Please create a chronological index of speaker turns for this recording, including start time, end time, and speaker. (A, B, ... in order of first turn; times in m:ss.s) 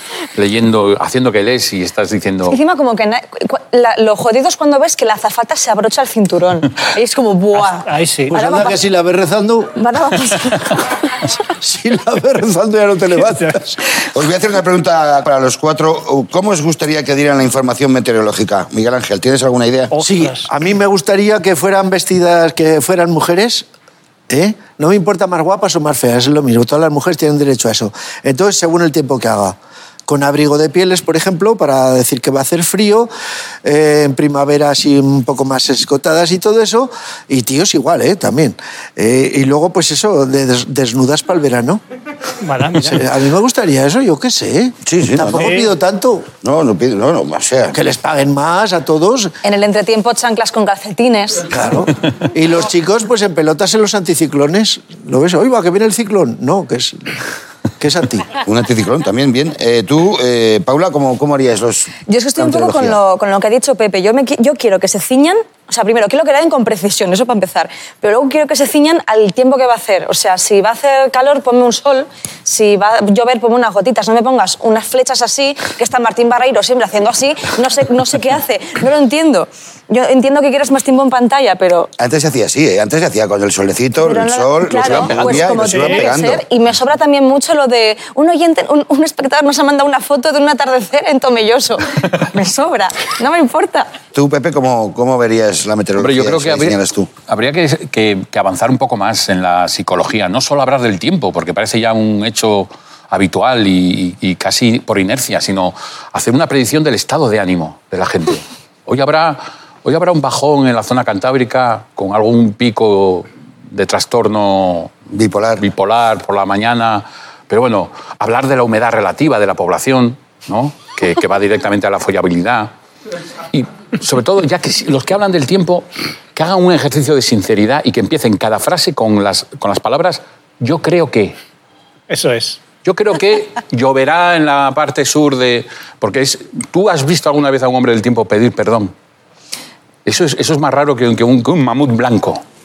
0:00.3-0:02.6 A
0:02.5-0:08.8 B
0:07.5-0:08.4 C
0:08.3-0:09.8 D
0:09.7-0:10.9 B
0:11.5-0:13.8 D
0:13.3-0:13.6 C
0:14.1-0:19.9 E
0:19.9-0:20.5 C
0:20.0-0:23.6 D
0:24.3-0:33.1 D
0:33.6-0:41.8 D
0:42.4-0:43.0 C
0:42.8-0:46.3 D
0:44.8-0:45.5 E
0:45.4-0:45.7 C
0:46.4-0:47.8 E
0:47.7-0:49.3 D
0:49.4-0:51.5 B
0:51.5-0:57.2 D
0:57.8-0:58.3 D
0:58.4-1:01.9 E
1:02.1-1:21.9 B
1:02.6-1:03.0 E
1:22.0-1:26.4 E
1:24.0-1:33.9 B
1:24.8-1:25.4 A
1:25.6-1:26.1 C
1:34.1-1:37.1 E
1:36.0-1:36.8 A
1:37.3-1:54.9 A
1:55.1-1:55.6 E
1:55.6-2:02.7 A
2:03.5-2:11.4 A
2:12.1-2:12.6 C
2:12.8-2:18.9 A
2:20.0-2:22.4 A